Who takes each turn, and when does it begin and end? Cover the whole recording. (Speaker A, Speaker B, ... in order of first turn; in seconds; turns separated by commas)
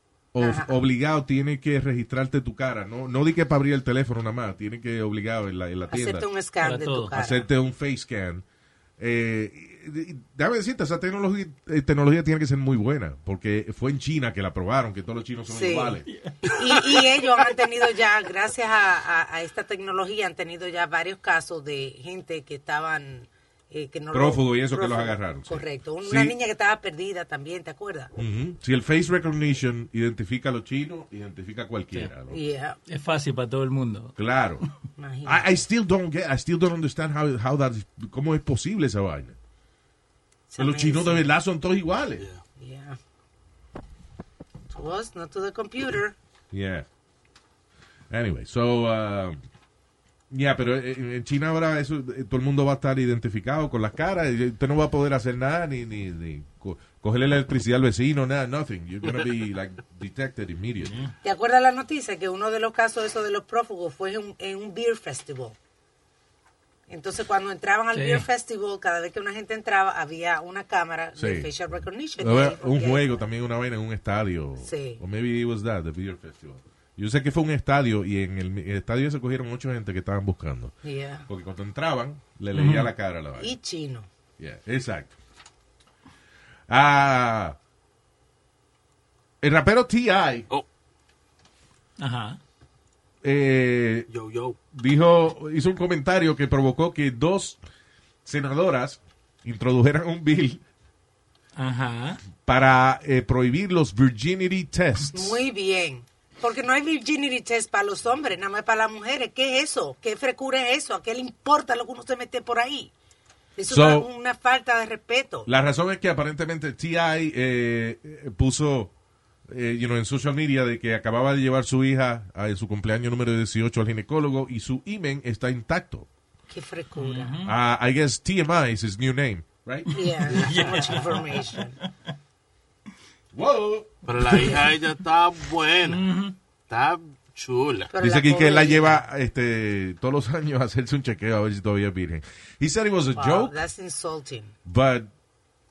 Speaker A: 0.3-6.3, Speaker B: 0.4-0.8, Speaker B: 5.9-7.5, Speaker C: 6.6-7.1, Speaker A: 7.1-8.4, Speaker A: 9.0-16.1, Speaker B: 15.5-16.0, Speaker B: 16.5-28.1, Speaker A: 24.1-26.3, Speaker A: 28.1-32.4, Speaker B: 32.3-32.8, Speaker C: 32.9-34.1, Speaker A: 34.2-34.6, Speaker B: 35.0-35.6, Speaker A: 35.2-39.4, Speaker B: 40.5-41.2, Speaker A: 40.6-42.2, Speaker B: 42.6-43.0, Speaker B: 44.7-46.1, Speaker A: 46.5-46.9, Speaker A: 48.1-49.4, Speaker A: 50.3-61.0, Speaker C: 60.8-61.1, Speaker B: 61.2-65.6, Speaker B: 66.9-73.2, Speaker C: 67.9-68.3, Speaker A: 71.2-71.5, Speaker A: 72.2-80.7, Speaker B: 74.6-75.0, Speaker B: 80.8-81.3, Speaker A: 81.3-83.5, Speaker C: 82.5-82.9, Speaker B: 83.4-84.1, Speaker A: 84.4-85.1, Speaker A: 86.7-87.6, Speaker A: 89.4-90.5, Speaker C: 92.0-92.4, Speaker A: 93.2-94.1, Speaker D: 94.1-94.6, Speaker A: 94.7-97.6, Speaker A: 98.2-100.6, Speaker C: 101.5-102.2, Speaker A: 102.4-105.4, Speaker B: 105.1-112.9, Speaker B: 113.5-115.5, Speaker A: 113.7-114.1, Speaker A: 115.5-118.9, Speaker A: 119.5-126.1, Speaker B: 126.5-127.3, Speaker C: 127.0-127.5, Speaker A: 127.4-129.9, Speaker B: 129.9-131.8, Speaker C: 129.9-131.6, Speaker A: 133.3-133.9, Speaker D: 134.0-136.0, Speaker C: 135.8-136.3, Speaker D: 136.7-137.9, Speaker B: 137.9-139.0, Speaker A: 138.0-143.5, Speaker B: 143.2-144.5, Speaker A: 144.6-145.1